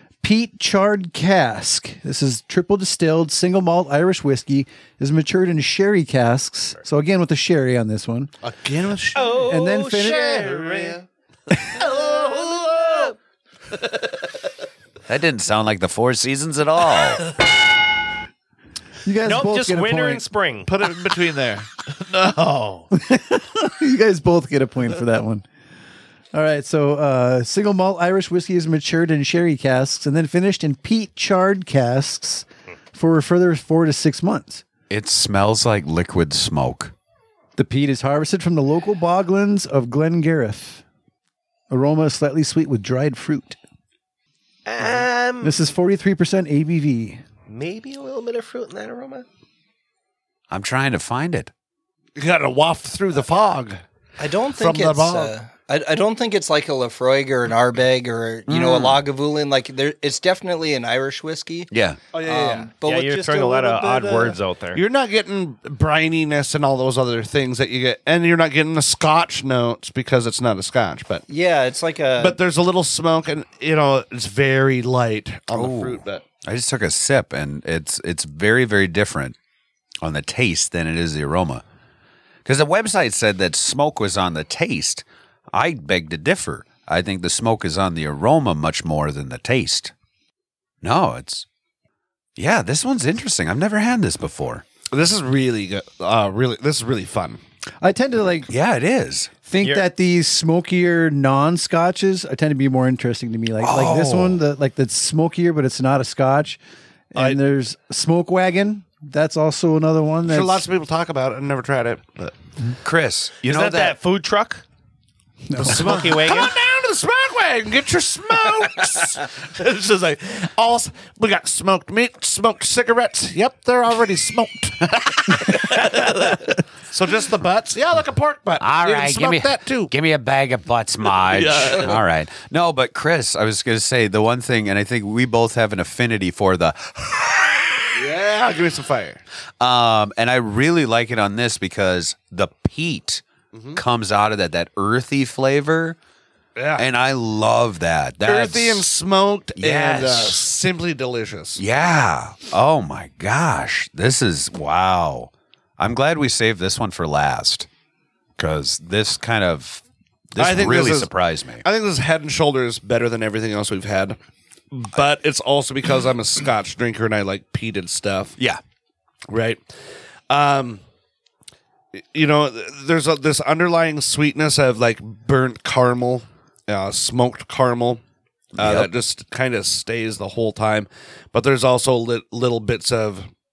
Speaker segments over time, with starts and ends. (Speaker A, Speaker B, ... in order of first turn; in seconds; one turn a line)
Speaker A: 0.2-8.3
Speaker B: 8.4-11.0
Speaker C: 9.1-11.0
Speaker A: 9.4-10.4
Speaker B: 11.7-13.1
Speaker C: 11.8-13.1
Speaker D: 15.1-17.2
Speaker A: 19.0-20.2
Speaker C: 19.2-20.7
Speaker B: 20.7-22.4
Speaker C: 22.3-22.8
Speaker A: 22.9-25.4
Speaker A: 26.3-34.6
Speaker D: 34.9-36.9
Speaker A: 37.6-40.8
Speaker A: 41.7-43.6
Speaker C: 44.6-45.5
Speaker A: 45.4-47.2
Speaker C: 47.5-49.2
Speaker D: 50.5-51.5
Speaker B: 52.1-53.8
Speaker E: 54.2-64.3
Speaker B: 54.5-55.3
Speaker D: 58.5-59.0
Speaker D: 61.7-62.0
Speaker B: 62.1-62.7
Speaker C: 62.8-64.8
Speaker B: 64.7-71.3
Speaker E: 71.3-72.4
Speaker B: 72.2-76.2
Speaker D: 75.5-79.3
Speaker D: 80.0-81.6
Speaker D: 82.4-89.9
Speaker D: 90.8-91.5
Speaker D: 92.4-94.6
Speaker B: 94.9-97.4
Speaker A: 97.8-98.5
Speaker D: 98.5-99.3
Speaker A: 99.5-106.6
Speaker C: 99.6-99.8
Speaker D: 103.6-104.4
Speaker A: 107.1-110.6
Speaker B: 110.3-112.3
Speaker D: 112.8-114.0
Speaker C: 113.4-114.6
Speaker A: 115.5-115.8
Speaker B: 115.5-129.9
Speaker C: 115.7-116.5
Speaker D: 128.6-137.9
Speaker B: 131.2-132.0
Speaker B: 137.9-139.2
Speaker D: 139.6-143.2
Speaker B: 143.5-143.8
Speaker D: 143.7-146.0
Speaker B: 146.6-146.8
Speaker D: 146.8-148.9
Speaker B: 148.2-151.6
Speaker D: 149.6-150.4
Speaker D: 151.6-157.7
Speaker D: 158.4-161.6
Speaker B: 160.4-161.1
Speaker B: 161.6-164.2
Speaker B: 164.7-168.3
Speaker B: 169.3-169.6
Speaker B: 170.3-170.8
Speaker B: 171.9-178.0
Speaker D: 178.6-178.9
Speaker B: 178.6-183.3